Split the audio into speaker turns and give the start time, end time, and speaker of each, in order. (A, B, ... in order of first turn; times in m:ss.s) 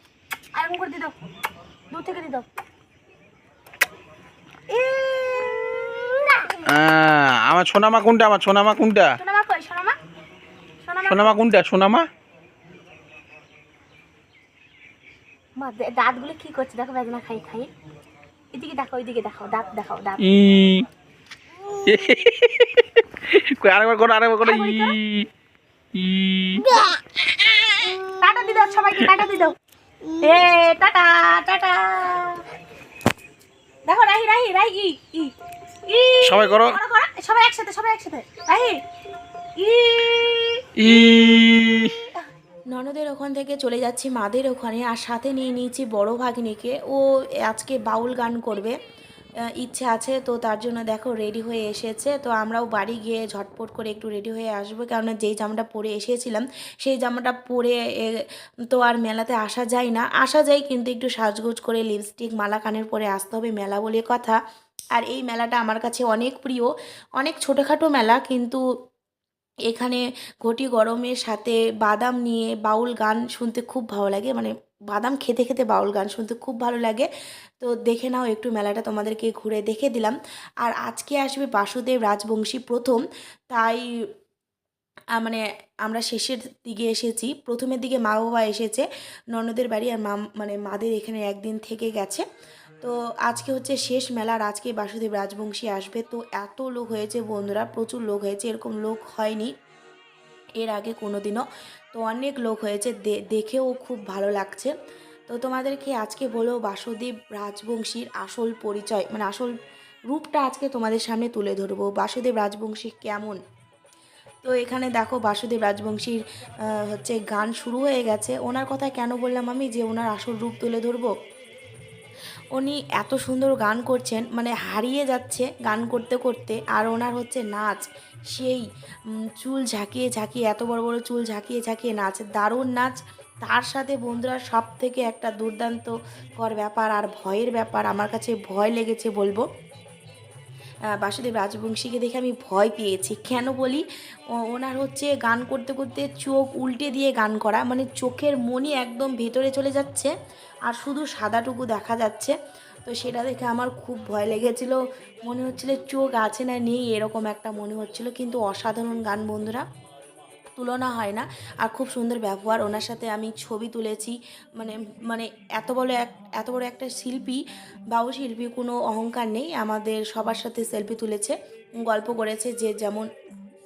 0:00.6-0:01.1 A
0:01.9-0:02.5 A
0:04.7-0:06.5 A
0:06.7-0:09.1 B
0:09.2-0:10.0 A
0:10.8-0:11.4 A
0:11.1-0:12.1 B
0:15.6-0:17.7 A
0:18.5-0:20.2 A
0:20.2-0:20.9 B
0:21.8-0:25.2 B
0:24.4-0:24.9 A
0:26.0-0:26.8 B
0:28.2-0:29.5 A
0:30.2-0:32.4 A
0:33.9-0:35.3 A
0:35.9-0:38.8 A
0:36.2-0:36.8 B
0:39.6-0:40.6 A
0:40.8-0:41.9 B
0:42.7-0:48.8 C
0:49.6-1:04.4 C
1:04.9-1:08.6 C
1:09.7-1:17.1 C
1:17.6-1:23.0 C
1:23.5-1:23.9 C
1:25.2-1:32.2 C
1:32.8-1:39.5 C
1:40.6-1:44.7 C
1:45.3-1:49.6 C
1:50.1-1:53.4 C
1:54.4-1:56.2 C
1:56.7-2:01.1 C
2:02.6-2:07.8 C
2:08.4-2:08.6 C
2:09.4-2:19.4 C
2:20.9-2:23.8 C
2:24.4-2:30.1 C
2:30.7-2:32.4 C
2:32.9-2:39.6 C
2:40.6-2:47.4 C
2:47.9-2:53.1 C